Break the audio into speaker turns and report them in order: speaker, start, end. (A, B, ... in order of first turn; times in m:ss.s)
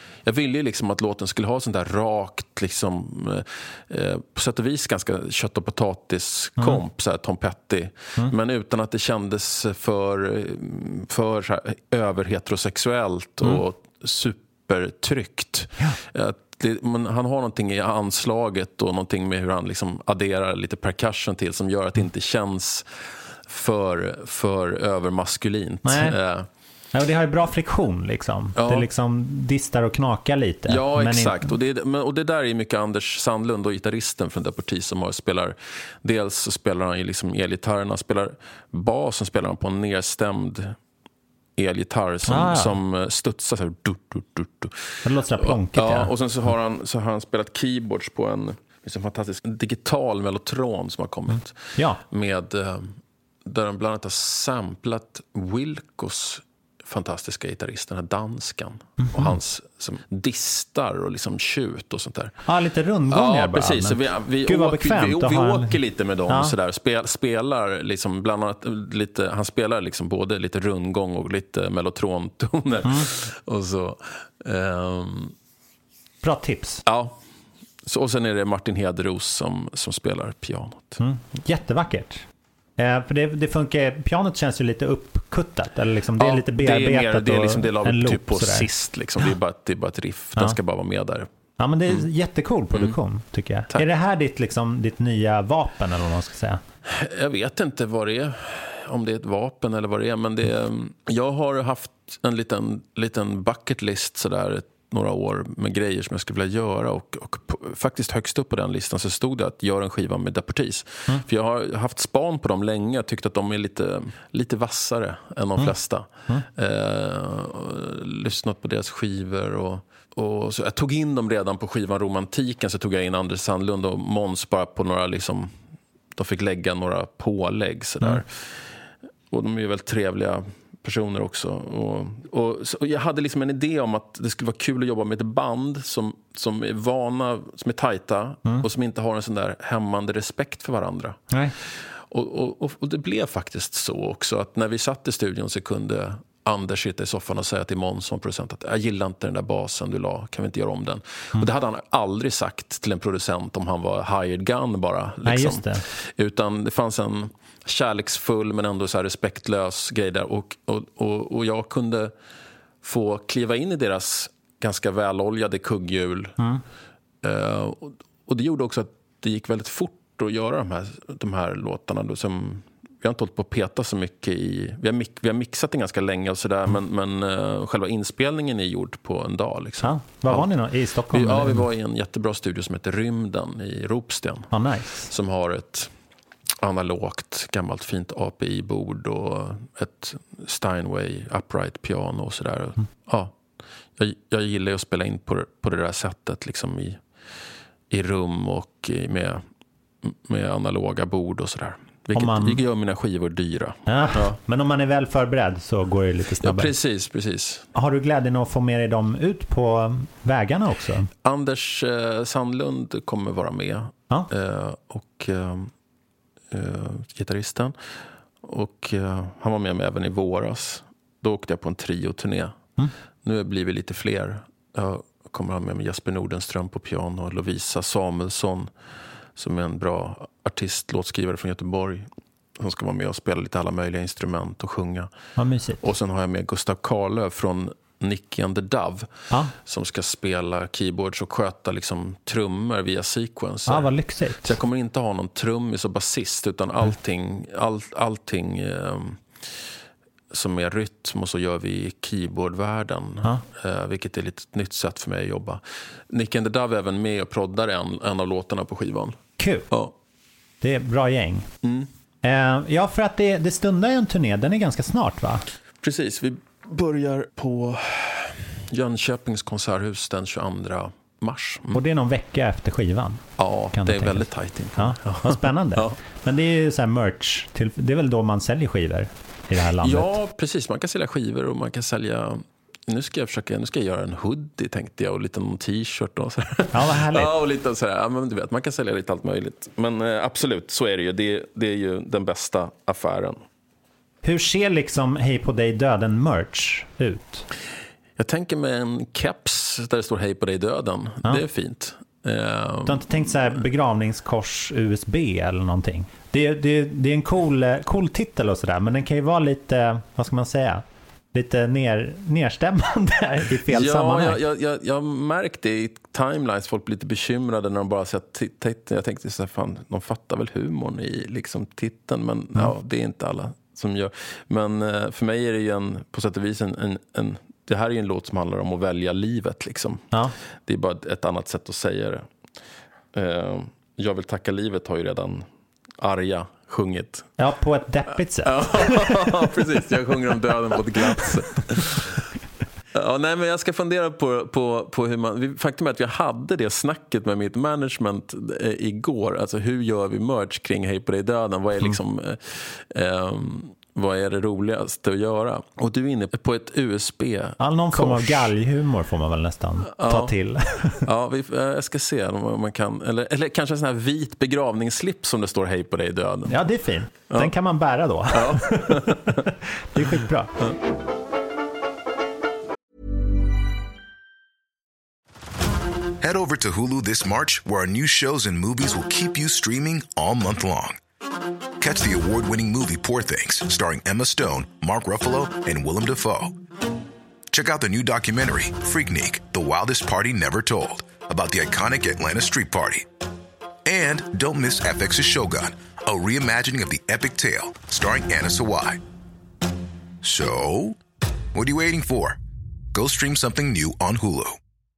0:00.2-0:22.8 A
0:06.6-0:06.8 B
0:23.5-0:26.5 A
0:25.8-0:26.2 B
0:26.9-0:31.5 B
0:28.6-0:28.9 A
0:30.7-0:40.8 A
0:41.6-0:44.7 A
0:42.2-0:42.8 B
0:45.0-0:46.1 B
0:45.3-0:52.9 A
0:51.3-0:52.0 B
0:53.5-1:02.3 A
0:59.0-0:59.4 B
1:02.5-1:06.6 B
1:03.1-1:15.3 A
1:12.8-1:13.1 B
1:16.2-1:16.8 B
1:16.9-1:17.1 A
1:17.9-1:21.0 A
1:21.0-1:22.2 B
1:22.8-1:28.7 B
1:26.2-1:31.3 A
1:31.6-1:36.6 B
1:36.9-2:05.5 A
2:06.2-2:08.3 A
2:09.3-2:21.2 A
2:21.3-2:21.6 B
2:22.1-2:35.7 A
2:35.2-2:35.8 B
2:36.2-2:42.1 A
2:42.8-2:46.4 A
2:47.2-3:00.5 A
2:59.8-3:01.7 B
3:01.1-3:04.5 A
3:04.5-3:05.1 B
3:05.1-3:05.9 A
3:06.6-3:13.3 A
3:14.0-3:17.0 A
3:17.9-3:19.4 A
3:20.1-3:24.4 A
3:22.1-3:22.6 B
3:23.9-3:26.8 B
3:26.4-3:27.6 A
3:27.8-3:31.1 B
3:31.2-3:35.7 A
3:36.5-3:37.7 A
3:38.4-3:42.6 A
3:43.2-3:48.7 A
3:49.4-3:52.1 A
3:52.6-3:55.1 A
3:55.4-3:55.8 B
3:55.8-3:59.1 A
3:59.7-4:03.9 A
4:03.7-4:04.6 B
4:04.4-4:09.2 A
4:10.3-4:15.6 A
4:16.1-4:19.2 A
4:19.4-4:19.7 B
4:20.6-4:21.5 B
4:22.2-4:25.4 B
4:25.8-4:31.8 A
4:31.7-4:40.2 B
4:33.4-4:36.0 A
4:39.8-4:53.4 A
4:46.7-4:47.3 B
4:54.2-4:57.4 B
4:58.2-5:03.1 A
5:02.9-5:14.4 B
5:13.7-5:30.0 A
5:30.7-5:32.2 A
5:33.2-5:35.4 A
5:36.0-5:37.2 A
5:37.4-5:39.3 B
5:38.4-5:42.0 A
5:43.0-5:52.4 A
5:52.9-5:58.5 A
5:57.6-6:01.1 B
6:00.0-6:00.3 A
6:01.1-6:06.6 A
6:06.5-6:10.7 B
6:08.3-6:09.2 A
6:16.2-6:21.0 C
6:21.8-6:26.5 C
6:27.5-6:33.0 C
6:33.9-6:39.0 C
6:40.2-6:41.0 C
6:41.5-6:42.4 C
6:42.9-6:44.6 C